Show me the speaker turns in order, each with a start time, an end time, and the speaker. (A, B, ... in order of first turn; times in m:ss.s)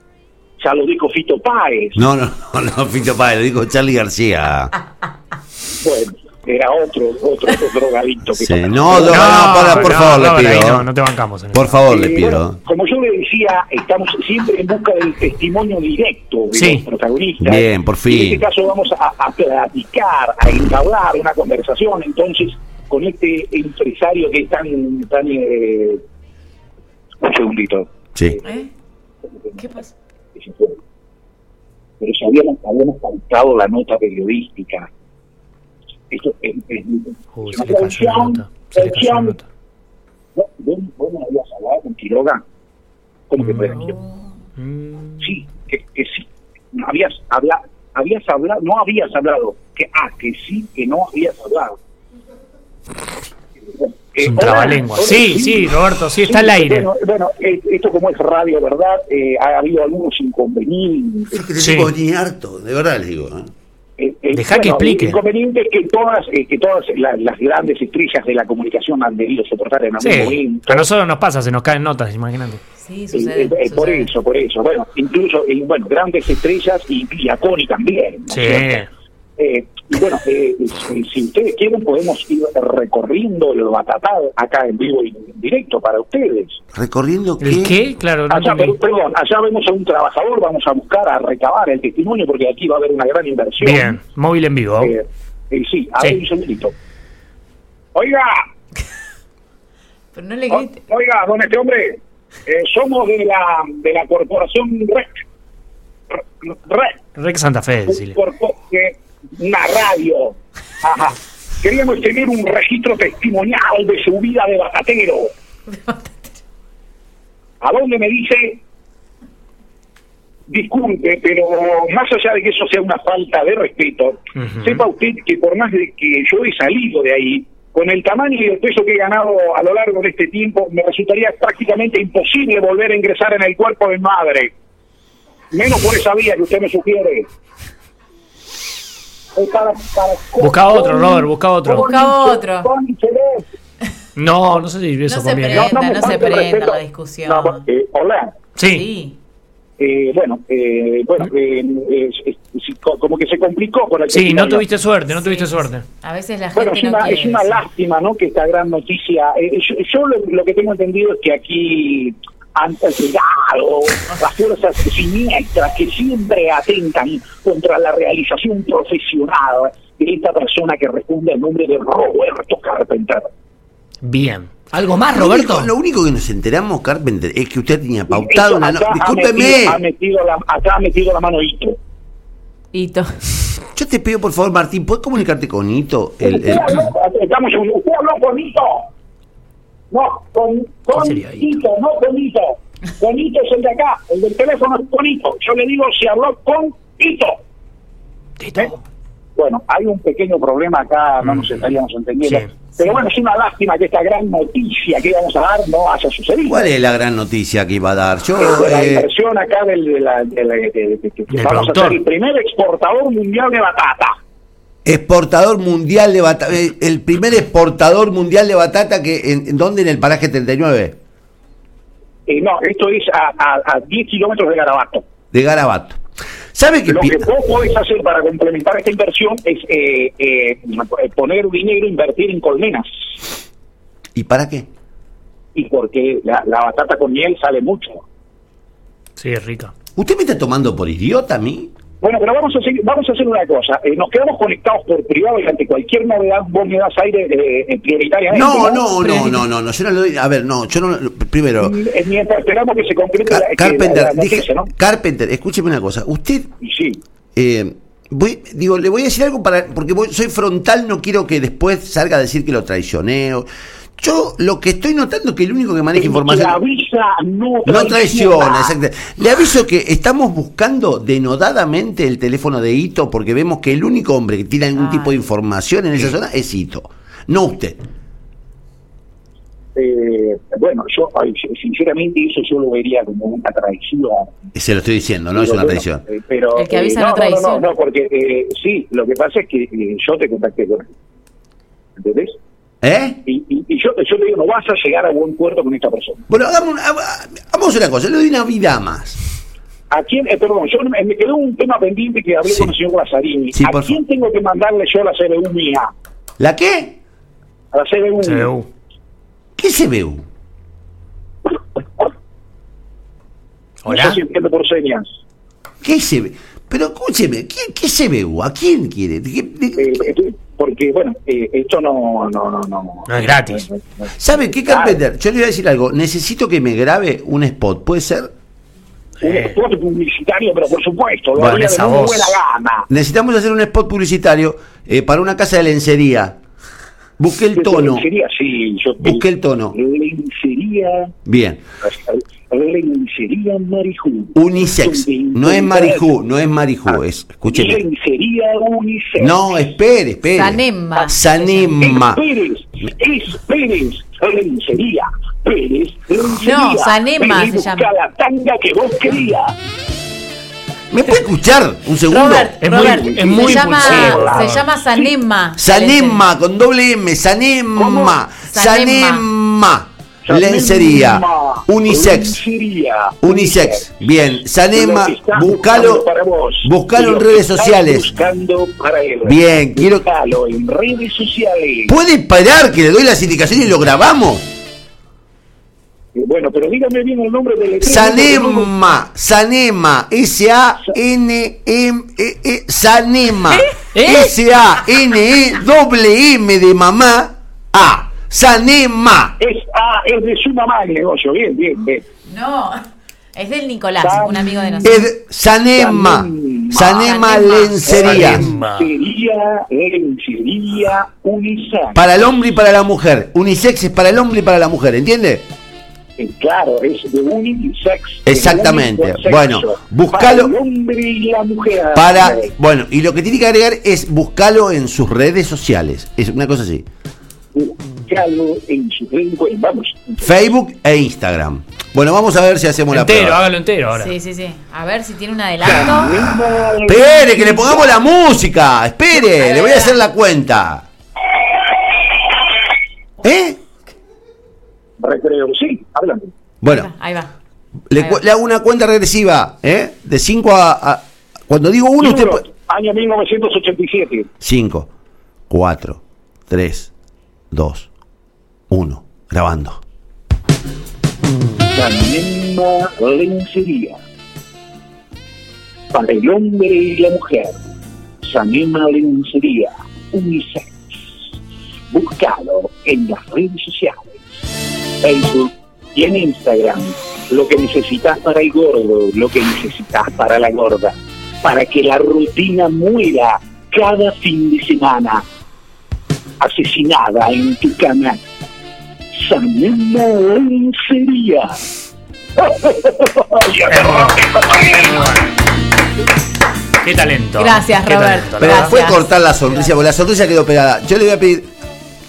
0:00.6-0:02.0 A
0:02.0-0:04.7 B
0:05.8-0:09.7 A
0:08.4-0:10.9 B
0:09.0-0:11.8 C
0:11.5-0:12.6 B
0:11.9-0:26.0 A
0:16.5-0:16.8 C
0:17.4-0:18.5 B
0:27.2-0:27.9 A
0:28.4-0:28.7 D
0:29.6-0:29.9 D
0:30.4-0:30.8 A
0:32.0-0:34.9 A
0:36.1-0:39.4 A
0:37.4-0:39.4 C
0:40.4-0:42.4 A
0:43.3-0:44.0 A
0:43.4-0:43.7 C
0:44.6-0:45.3 C
0:45.2-0:51.8 A
0:53.8-1:01.5 A
0:54.2-0:56.9 C
1:01.3-1:03.5 B
1:01.6-1:01.9 C
1:04.0-1:10.9 A
1:04.3-1:05.2 C
1:10.0-1:12.6 C
1:12.8-1:14.1 D
1:13.1-1:18.8 A
1:18.3-1:18.9 C
1:19.4-1:26.6 A
1:26.7-1:27.8 B
1:27.4-1:28.8 C
1:28.3-1:34.0 A
1:33.6-1:35.0 C
1:34.8-1:36.7 A
1:38.0-1:38.4 A
1:40.1-1:40.8 D
1:40.5-1:45.1 A
1:46.1-1:47.0 A
1:47.2-1:48.2 C
1:47.9-1:55.3 A
1:55.7-1:56.2 D
1:57.6-1:58.6 A
2:00.5-2:14.5 A
2:04.4-2:04.8 C
2:15.5-2:17.3 A
2:19.4-2:23.5 A
2:20.4-2:21.9 C
2:21.7-2:22.7 D
2:24.2-2:25.8 C
2:25.1-2:27.6 D
2:25.5-2:28.3 A
2:28.6-2:28.9 C
2:28.6-2:29.2 D
2:29.8-2:34.7 A
2:34.1-2:35.8 C
2:35.1-2:37.6 D
2:36.6-2:53.3 A
2:54.0-2:55.7 C
2:55.1-2:59.8 B
2:58.1-3:01.8 A
3:02.7-3:03.3 D
3:03.7-3:06.9 B
3:06.2-3:08.9 A
3:09.9-3:17.4 A
3:11.0-3:11.5 C
3:18.4-3:18.8 C
3:19.4-3:26.7 A
3:21.2-3:21.6 C
3:26.5-3:29.1 B
3:28.4-3:34.2 A
3:31.3-3:32.0 C
3:34.8-3:41.0 B
3:42.3-3:45.1 A
3:45.3-3:46.0 B
3:46.5-3:47.3 B
3:46.9-3:53.1 A
3:54.2-3:54.7 B
3:55.6-3:58.0 A
3:59.2-3:59.7 C
4:00.0-4:01.7 B
4:02.0-4:09.4 A
4:08.3-4:11.8 B
4:11.6-4:14.7 A
4:13.3-4:16.5 B
4:16.6-4:17.0 A
4:17.4-4:26.6 B
4:26.0-4:28.8 A
4:27.7-4:37.8 B
4:34.8-4:35.2 D
4:39.8-4:44.4 A
4:44.6-4:46.0 B
4:45.3-4:50.9 A
4:46.5-4:47.7 D
4:52.0-4:52.4 A
4:52.8-4:53.2 B
4:53.2-4:56.3 A
4:56.3-4:59.2 B
4:59.9-5:05.9 A
5:03.5-5:04.0 B
5:06.4-5:07.0 B
5:07.7-5:08.5 A
5:08.2-5:08.7 C
5:09.6-5:10.2 B
5:13.8-5:14.2 C
5:13.9-5:15.2 A
5:15.8-5:20.0 B
5:19.8-5:25.0 A
5:23.1-5:23.6 C
5:24.2-5:28.3 B
5:29.2-5:29.6 C
5:29.2-5:32.9 A
5:31.4-5:32.4 C
5:32.9-5:36.4 B
5:37.2-5:38.1 B
5:37.6-5:41.2 A
5:39.0-5:39.8 B
5:41.3-5:41.6 B
5:41.8-5:46.1 A
5:44.4-5:47.8 B
5:46.9-5:49.7 A
5:49.2-5:52.2 B
5:50.3-5:51.2 D
5:51.7-5:59.5 A
5:56.4-5:57.9 D
6:00.9-6:02.6 B
6:02.1-6:06.2 D
6:02.6-6:04.7 C
6:02.7-6:05.1 A
6:05.6-6:12.4 B
6:07.8-6:08.2 A
6:08.5-6:09.2 D
6:10.2-6:14.1 A
6:13.2-6:16.1 B
6:14.7-6:22.0 A
6:16.6-6:18.1 B
6:19.2-6:20.1 B
6:21.9-6:24.5 B
6:26.1-6:28.7 A
6:27.8-6:39.4 B
6:33.9-6:34.4 C
6:39.4-6:42.0 A
6:42.3-6:42.8 D
6:43.4-6:44.9 D
6:44.0-6:45.1 A
6:44.8-6:48.4 B
6:45.7-6:47.2 A
6:47.0-6:48.1 D
6:47.8-6:52.1 A
6:47.9-6:48.9 C
6:52.0-6:55.5 B
6:56.2-7:02.5 A
6:58.3-7:00.5 B
7:01.9-7:06.9 B
7:07.5-7:10.5 A
7:10.2-7:13.4 B
7:12.9-7:14.1 C
7:13.9-7:16.2 D
7:15.6-7:18.0 A
7:16.9-7:20.8 B
7:19.6-7:19.9 D
7:23.2-7:23.6 B
7:25.0-7:26.3 A
7:26.6-7:26.9 B
7:26.7-7:27.3 D
7:27.9-7:32.4 B
7:32.0-7:34.3 A
7:34.4-7:34.9 B
7:35.5-7:36.9 B
7:37.5-7:37.9 B
7:38.7-7:39.8 B
7:41.7-7:44.0 A
7:45.9-7:47.6 A
7:48.2-7:51.2 A
7:51.9-7:54.2 A
7:55.0-8:05.2 A
8:06.4-8:08.2 A
8:09.1-8:11.6 A
8:12.4-8:15.1 A
8:13.7-8:15.3 C
8:16.8-8:18.7 C
8:17.4-8:19.7 D
8:18.4-8:21.5 B